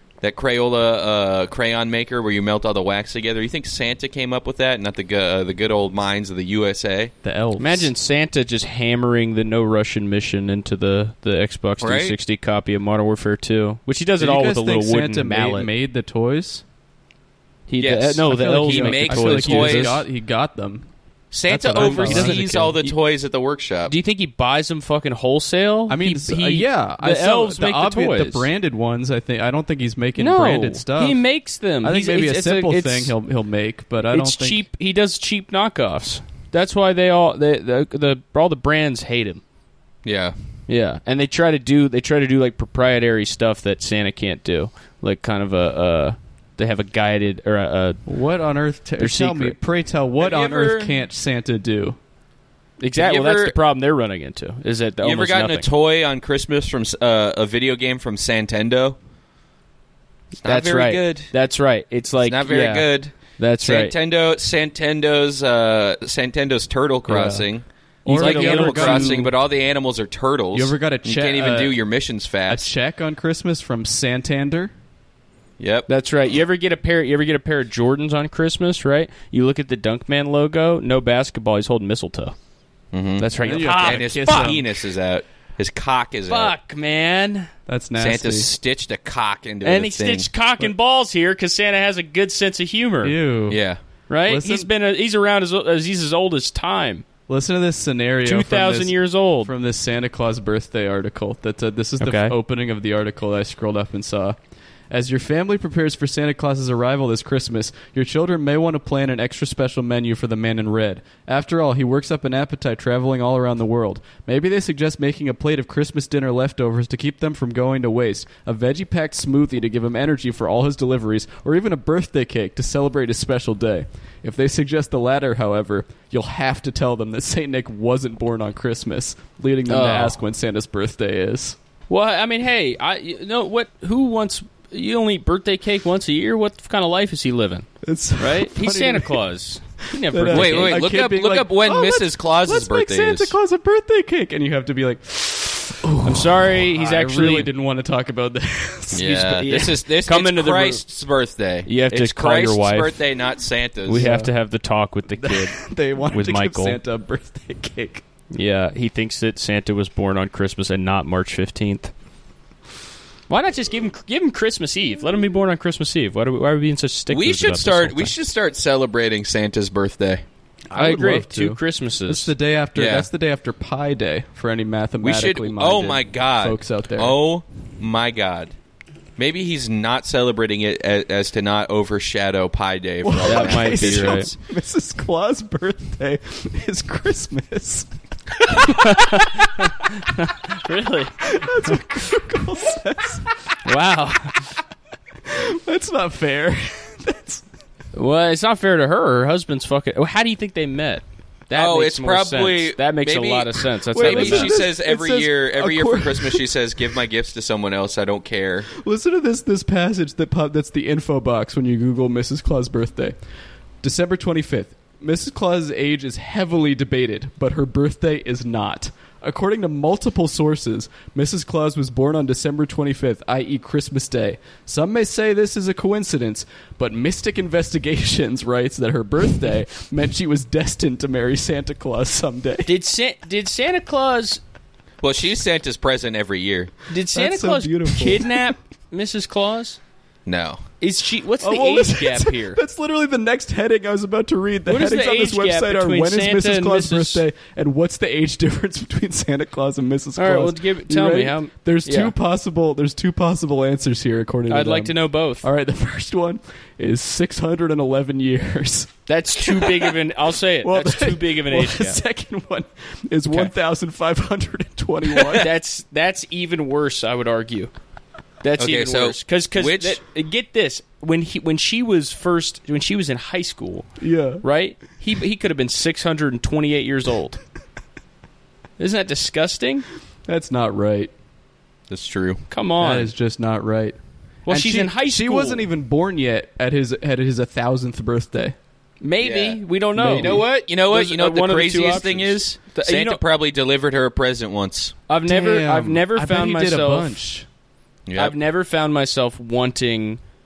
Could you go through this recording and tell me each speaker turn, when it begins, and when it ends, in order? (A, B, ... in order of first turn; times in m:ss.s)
0:00.2-0:07.1 A
0:07.2-0:07.9 B
0:07.6-0:15.7 C
0:11.8-0:12.2 A
0:14.2-0:16.6 B
0:17.7-0:20.0 C
0:17.8-0:20.0 A
0:18.2-0:20.9 B
0:21.3-0:23.9 A
0:21.5-0:22.9 B
0:21.7-0:22.7 C
0:23.9-0:28.5 C
0:25.9-0:31.2 B
0:30.2-0:33.2 C
0:31.8-0:34.6 B
0:34.1-0:39.4 C
0:40.0-0:40.4 A
0:40.7-0:48.0 C
0:48.0-0:52.0 B
0:49.0-0:49.6 C
0:50.2-0:50.9 A
0:52.8-0:55.7 C
0:53.0-0:53.6 A
0:55.0-0:59.0 A
1:00.4-1:01.3 A
1:00.4-1:03.9 C
1:02.2-1:12.7 A
1:07.1-1:07.5 B
1:08.0-1:09.3 B
1:08.0-1:09.2 C
1:10.5-1:11.8 B
1:12.5-1:14.7 B
1:15.6-1:15.9 A
1:15.9-1:22.3 C
1:22.9-1:26.5 A
1:23.2-1:24.6 C
1:23.4-1:24.6 B
1:26.3-1:27.5 C
1:27.6-1:28.5 B
1:28.0-1:30.3 A
1:29.6-1:33.2 C
1:33.0-1:33.6 B
1:33.5-1:33.8 A
1:34.1-1:37.0 C
1:34.2-1:34.7 B
1:37.3-1:44.4 B
1:38.2-1:39.5 C
1:42.0-1:42.3 C
1:44.9-2:11.6 B
2:09.7-2:10.2 C
2:11.9-2:20.8 C
2:17.8-2:19.2 B
2:20.0-2:29.6 B
2:20.3-2:23.4 A
2:26.0-2:27.5 C
2:28.9-2:34.1 A
2:29.2-2:30.8 C
2:31.6-2:33.0 C
2:33.9-2:36.8 C
2:33.9-2:34.3 B
2:35.2-2:38.0 B
2:38.3-2:41.9 C
2:43.3-2:48.1 C
2:47.1-2:50.2 A
2:50.7-2:57.2 B
2:50.7-2:52.3 C
2:52.8-2:53.1 A
2:55.0-2:58.5 A
2:59.2-3:04.3 A
3:03.0-3:07.9 B
3:03.2-3:04.3 C
3:08.6-3:11.8 C
3:11.3-3:13.3 B
3:13.6-3:14.5 C
3:15.2-3:17.4 B
3:17.9-3:24.6 C
3:21.5-3:28.7 A
3:23.9-3:26.4 B
3:28.7-3:33.2 B
3:33.8-3:52.7 B
3:52.6-3:54.4 C
3:55.0-3:56.7 A
3:56.9-3:59.8 C
3:57.1-3:58.5 B
4:00.2-4:00.6 A
4:00.8-4:02.6 C
4:01.4-4:19.9 B
4:04.7-4:07.2 C
4:10.2-4:12.1 C
4:14.5-4:15.5 C
4:19.1-4:22.0 C
4:20.6-4:25.5 B
4:25.2-4:25.4 A
4:25.3-4:27.7 C
4:28.4-4:37.4 C
4:28.6-4:30.0 A
4:34.0-4:34.4 B
4:38.8-4:39.8 C
4:40.2-4:41.1 B
4:41.9-4:42.4 A
4:42.5-4:43.1 C
4:42.8-4:48.6 B
4:44.4-4:45.7 C
4:49.0-4:53.2 C
4:49.2-4:49.6 A
4:49.9-4:50.4 B
4:50.1-4:55.0 A
4:55.1-4:57.3 C
4:55.3-4:57.4 B
4:58.0-4:58.3 A
4:58.1-5:00.2 C